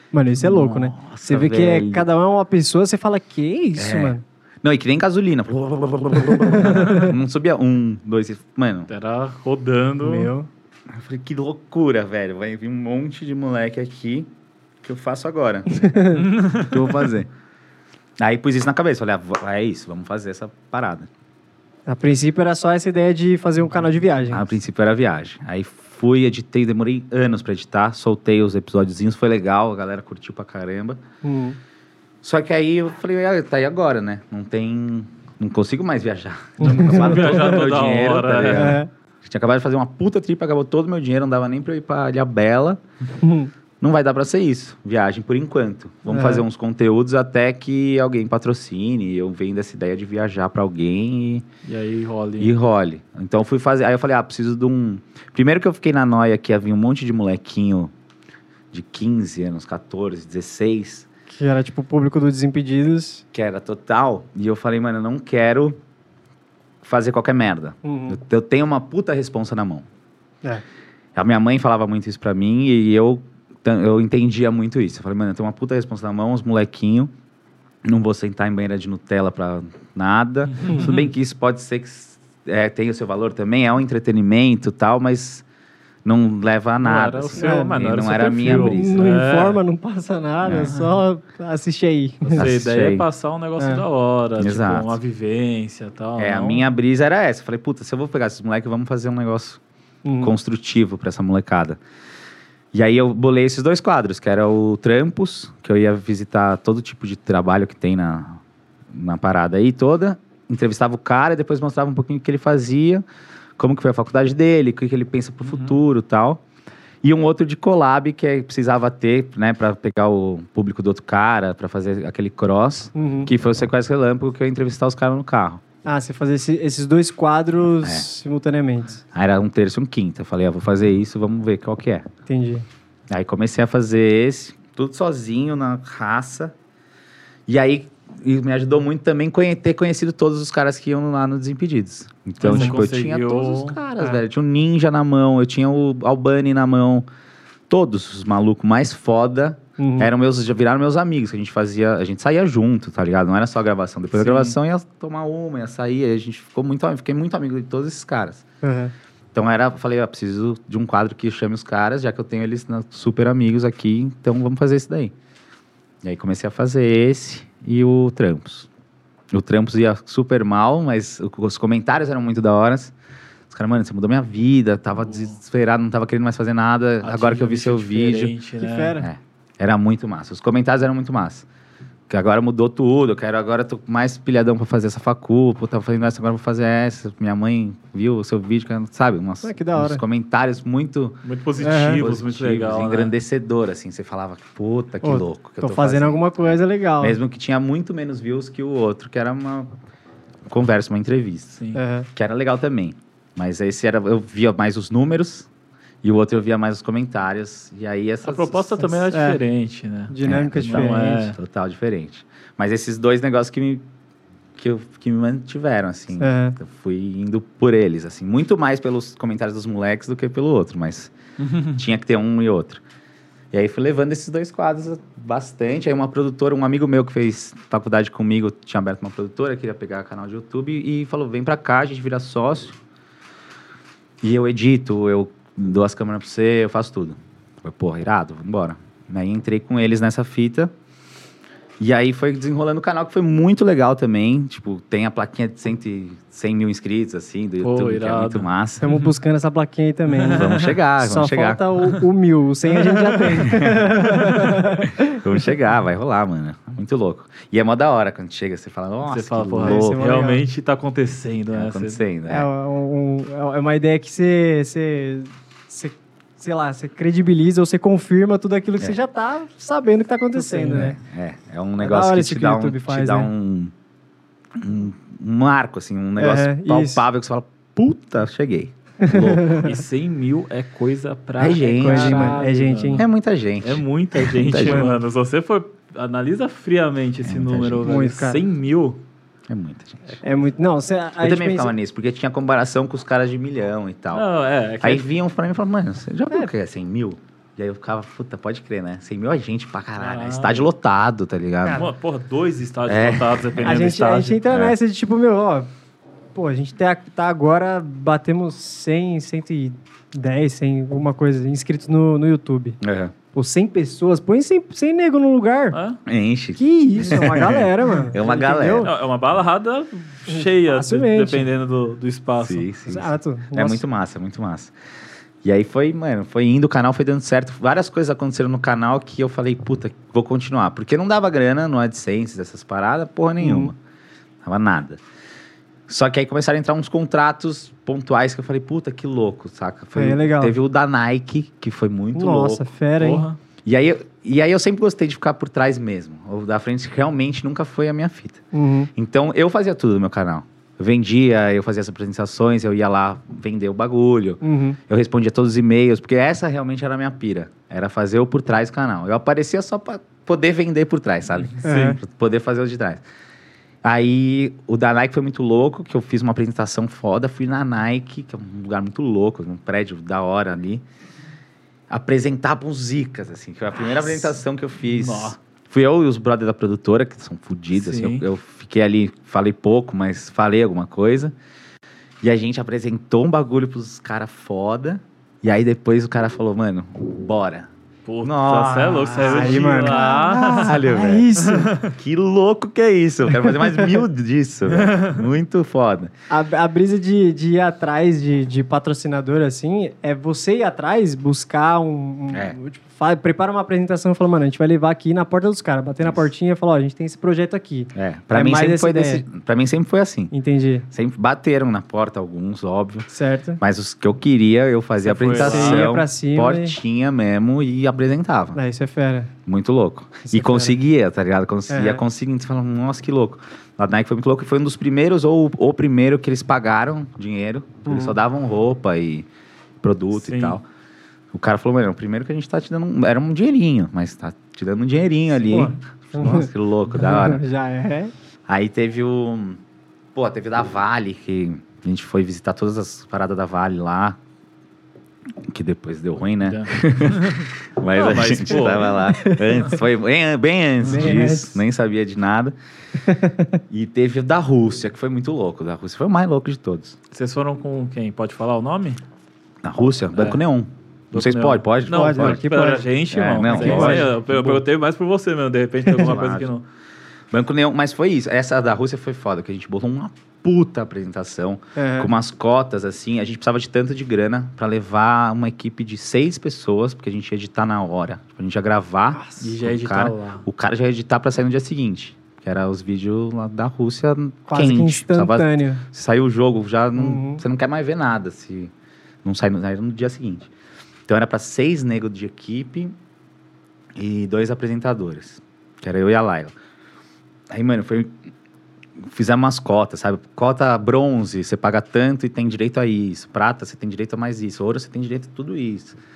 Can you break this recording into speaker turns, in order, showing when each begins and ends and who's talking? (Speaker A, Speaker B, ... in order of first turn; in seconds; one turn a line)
Speaker A: 0.1-4.2
Speaker B: 0.4-2.1
Speaker B: 3.8-8.9
Speaker A: 6.4-7.1
Speaker C: 8.9-10.3
Speaker A: 10.0-10.5
Speaker B: 10.9-14.3
Speaker B: 14.8-15.9
Speaker A: 15.7-16.3
Speaker C: 16.2-16.8
Speaker B: 16.6-17.3
Speaker B: 18.2-21.1
Speaker A: 21.9-24.5
Speaker B: 24.3-31.0
Speaker A: 31.2-31.6
Speaker B: 32.2-42.8
Speaker A: 36.6-37.4
Speaker C: 36.6-38.8
Speaker A: 38.5-38.9
Speaker A: 43.2-43.5
Speaker B: 43.8-51.5
Speaker A: 46.1-46.5
Speaker C: 51.6-52.5
Speaker B: 52.4-57.9
Speaker B: 58.7-61.1
Speaker A: 61.3-63.2
Speaker B: 63.3-65.8
Speaker B: 66.8-69.9
Speaker A: 67.8-68.2
Speaker B: 71.2-77.1
Speaker B: 77.8-85.5
Speaker C: 80.5-81.1
Speaker B: 86.0-89.1
Speaker C: 86.8-89.6
Speaker A: 87.4-87.7
Speaker A: 88.4-92.5
Speaker B: 90.4-90.7
Speaker C: 92.2-96.7
Speaker B: 92.3-93.1
Speaker B: 94.4-95.0
Speaker B: 96.2-99.6
Speaker A: 100.0-100.3
Speaker B: 100.2-101.8
Speaker B: 102.7-108.4
Speaker B: 108.9-113.0
Speaker B: 113.6-116.4
Speaker C: 115.5-115.8
Speaker B: 117.0-125.6
Speaker A: 123.0-123.3
Speaker A: 125.8-129.0
Speaker B: 127.8-128.1
Speaker B: 129.1-132.1
Speaker A: 132.3-132.7
Speaker B: 133.1-136.6
Speaker B: 137.5-147.1
Speaker C: 142.4-143.8
Speaker A: 142.5-142.8
Speaker B: 147.7-158.4
Speaker A: 149.8-150.1
Speaker C: 154.2-154.6
Speaker A: 158.6-158.9
Speaker B: 159.3-165.1
Speaker B: 166.0-168.7
Speaker B: 169.3-172.9
Speaker B: 173.5-178.3
Speaker C: 177.0-179.0
Speaker A: 178.6-179.1
Speaker B: 179.0-181.5
Speaker B: 182.1-191.2
Speaker A: 189.4-190.0
Speaker C: 191.2-193.1
Speaker A: 191.6-192.0
Speaker B: 191.9-199.7
Speaker A: 195.0-197.2
Speaker B: 200.5-201.6
Speaker A: 201.7-202.1
Speaker B: 202.1-205.5
Speaker B: 206.0-208.7
Speaker C: 208.2-211.4
Speaker A: 208.9-209.4
Speaker A: 210.1-211.3
Speaker B: 210.2-213.8
Speaker B: 214.6-221.1
Speaker A: 216.2-216.6
Speaker C: 221.4-221.8
Speaker B: 221.7-222.8
Speaker B: 223.5-232.8
Speaker B: 234.2-240.7
Speaker B: 241.8-248.8
Speaker C: 247.6-249.1
Speaker A: 248.8-255.2
Speaker C: 250.1-250.8
Speaker B: 250.3-251.6
Speaker C: 252.8-253.5
Speaker B: 253.4-260.0
Speaker C: 254.2-254.6
Speaker C: 259.1-262.0
Speaker A: 259.6-260.4
Speaker B: 261.5-262.5
Speaker A: 262.3-271.0
Speaker B: 270.4-273.7
Speaker A: 271.8-273.3
Speaker B: 274.6-279.2
Speaker A: 276.2-277.0
Speaker A: 279.0-279.8
Speaker C: 279.1-283.1
Speaker B: 281.4-284.9
Speaker A: 281.8-283.1
Speaker C: 283.6-289.0
Speaker B: 287.2-288.0
Speaker A: 287.8-288.4
Speaker B: 289.5-290.2
Speaker A: 290.2-291.7
Speaker B: 291.2-294.3
Speaker C: 294.1-295.1
Speaker B: 294.8-301.8
Speaker C: 300.0-300.7
Speaker C: 301.7-304.4
Speaker B: 302.9-303.8
Speaker A: 303.6-305.7
Speaker B: 304.5-304.8
Speaker A: 306.4-312.8
Speaker B: 312.8-313.1
Speaker A: 313.3-315.8
Speaker C: 315.7-316.0
Speaker B: 316.1-318.9
Speaker A: 316.6-318.9
Speaker C: 318.8-322.7
Speaker A: 320.3-321.5
Speaker B: 322.4-324.7
Speaker A: 322.9-323.8
Speaker B: 325.4-333.8
Speaker A: 333.4-333.7
Speaker B: 334.4-335.0
Speaker B: 335.9-342.7
Speaker A: 339.9-340.6
Speaker A: 342.1-343.3
Speaker C: 343.0-343.4
Speaker B: 343.6-348.4
Speaker A: 348.5-348.9
Speaker B: 349.0-363.0
Speaker A: 354.4-354.8
Speaker C: 361.4-362.0
Speaker A: 361.6-362.0
Speaker B: 363.8-370.8
Speaker B: 371.9-381.3
Speaker C: 374.9-375.4
Speaker C: 377.8-378.3
Speaker B: 382.2-387.7
Speaker C: 388.1-390.9
Speaker B: 388.2-396.1
Speaker A: 389.2-391.8
Speaker C: 391.4-391.9
Speaker A: 393.4-394.0
Speaker C: 394.7-395.2
Speaker A: 396.3-409.2
Speaker B: 402.3-402.6
Speaker B: 407.9-410.3
Speaker A: 410.3-410.9
Speaker B: 410.9-418.6
Speaker A: 413.1-413.6
Speaker C: 415.0-415.9
Speaker A: 415.3-416.8
Speaker A: 418.6-419.3
Speaker B: 419.5-429.3
Speaker A: 420.3-420.8
Speaker A: 421.7-422.0
Speaker A: 427.9-428.1
Speaker B: 429.8-430.6
Speaker C: 430.1-430.6
Speaker B: 431.3-437.4
Speaker A: 435.5-438.1
Speaker B: 438.5-439.6
Speaker B: 440.1-444.2
Speaker B: 445.5-452.6
Speaker C: 446.4-449.0
Speaker A: 448.6-449.8
Speaker A: 450.8-451.6
Speaker C: 451.0-451.3
Speaker A: 453.0-453.6
Speaker B: 453.7-457.0
Speaker C: 457.1-459.0
Speaker B: 459.6-462.4
Speaker C: 460.1-460.4
Speaker C: 461.1-466.6
Speaker A: 461.9-462.9
Speaker B: 463.1-464.6
Speaker A: 463.4-464.6
Speaker B: 466.0-466.5
Speaker B: 467.3-488.7
Speaker A: 471.8-472.1
Speaker A: 479.1-479.4
Speaker C: 479.4-480.5
Speaker A: 484.5-485.8
Speaker A: 487.0-487.4
Speaker B: 489.2-490.5
Speaker B: 491.1-493.0
Speaker B: 494.0-496.5
Speaker B: 497.5-498.1
Speaker B: 499.0-506.0